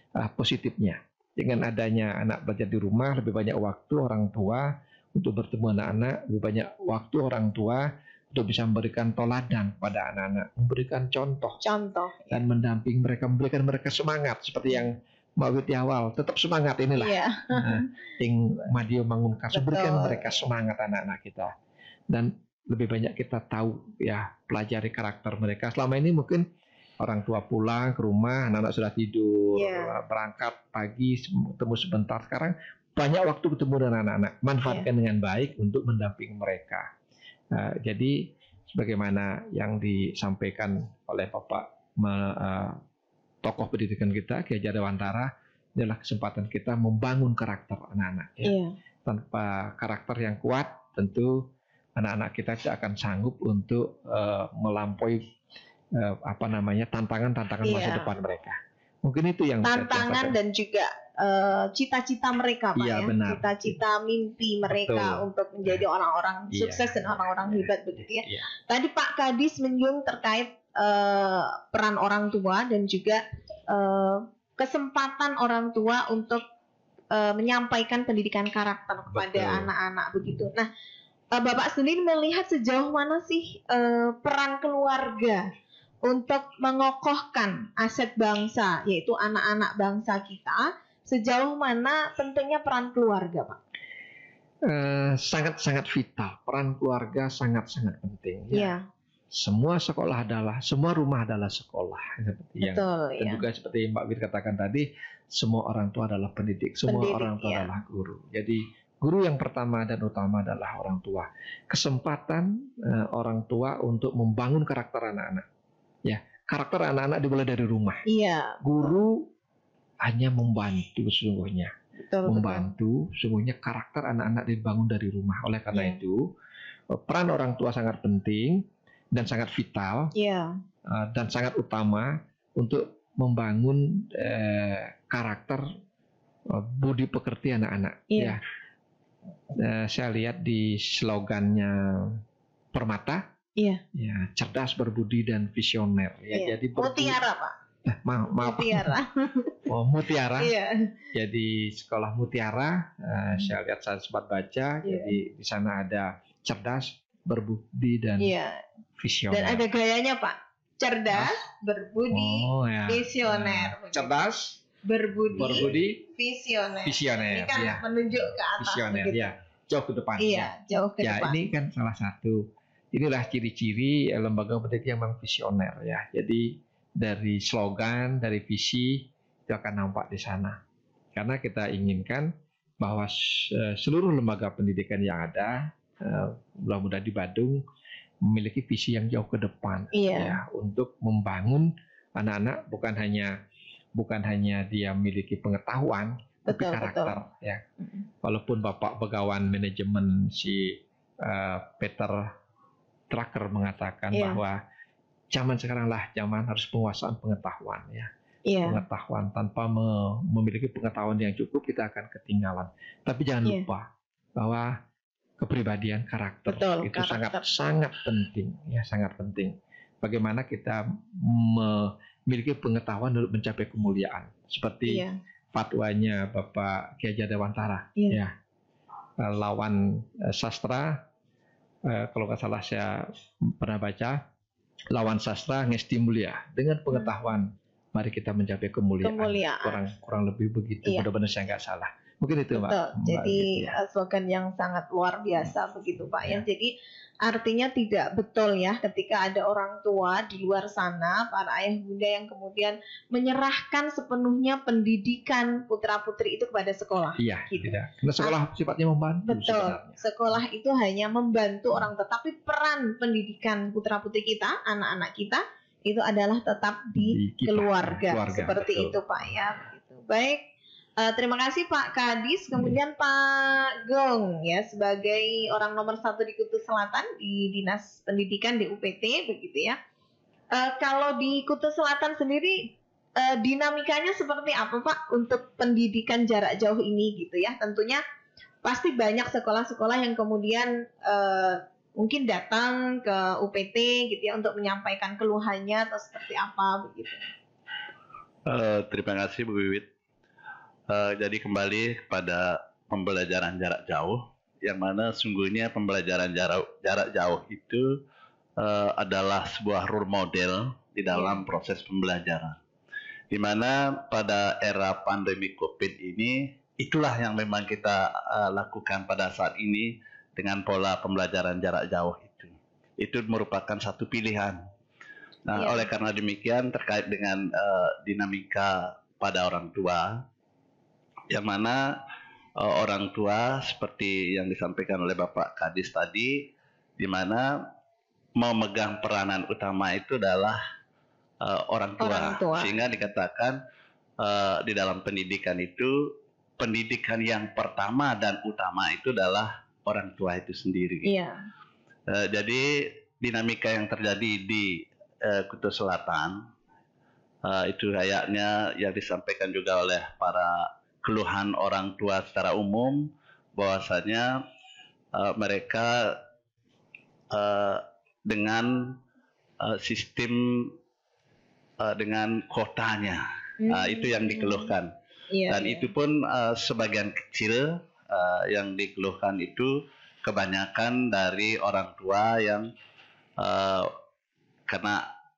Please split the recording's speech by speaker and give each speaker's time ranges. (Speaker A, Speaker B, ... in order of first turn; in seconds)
Speaker A: 0.2-11.6, 12.3-21.5, 22.1-26.4, 27.0-36.9, 37.5-42.8, 43.4-55.2, 56.0-60.4, 62.8-63.8, 64.7-65.8, 66.5-68.5, 79.1-79.7, 94.7-98.7, 99.3-115.5, 116.0-118.0, 118.6-119.3, 120.0-121.7, 122.3-126.3, 126.9-130.1, 130.9-135.6, 136.5-138.4, 139.5-142.2, 142.7-143.2, 143.9-147.2, 147.8-148.9, 149.7-150.5, 151.1-158.3, 159.0-159.6, 161.1-161.4, 162.1-164.6, 165.3-166.0, 166.8-180.6, 181.1-187.6, 188.2-193.3, 194.0-197.6, 198.2-202.3, 203.1-204.6, 205.3-208.1, 208.6-213.9, 214.4-214.8, 215.4-228.3, 229.2-231.0, 231.9-233.1, 233.6-234.2, 234.9-243.8, 257.2-260.4, 267.0-269.4
Speaker B: 11.6-12.4, 17.0-17.9, 19.5-20.3, 29.6-29.9, 48.4-48.7, 57.6-58.1, 59.6-76.4, 77.1-80.7, 81.3-85.5, 86.0-93.6, 98.5-98.8, 102.6-103.4, 106.9-107.7, 118.0-118.9, 122.0-122.7, 130.1-130.6, 138.1-138.4, 143.6-143.8, 146.3-147.5, 148.4-149.7, 150.4-150.9, 154.8-155.2, 158.2-158.6, 159.3-164.3, 164.8-169.3, 170.2-171.4, 189.9-190.4, 196.5-197.2, 204.1-204.4, 208.5-208.8, 216.5-217.4, 224.9-225.2, 239.0-239.8, 242.5-246.7, 247.2-258.4, 259.3-270.4, 271.0-279.8, 280.5-288.0, 288.6-297.3, 311.1-311.4, 325.5-325.9, 342.0-342.8, 351.0-351.4, 373.6-374.7, 375.3-375.9
Speaker C: 298.5-299.9, 300.9-307.9, 308.6-312.6, 313.3-324.6, 325.5-330.1, 331.3-331.8, 332.6-336.4, 337.0-337.4, 338.4-340.6, 341.4-343.6, 344.2-345.9, 346.6-351.1, 352.1-352.6, 353.2-356.4, 357.4-364.3, 365.1-366.2, 367.3-369.0, 369.6-370.7, 371.8-374.9, 375.5-382.7, 383.4-383.9, 384.7-385.0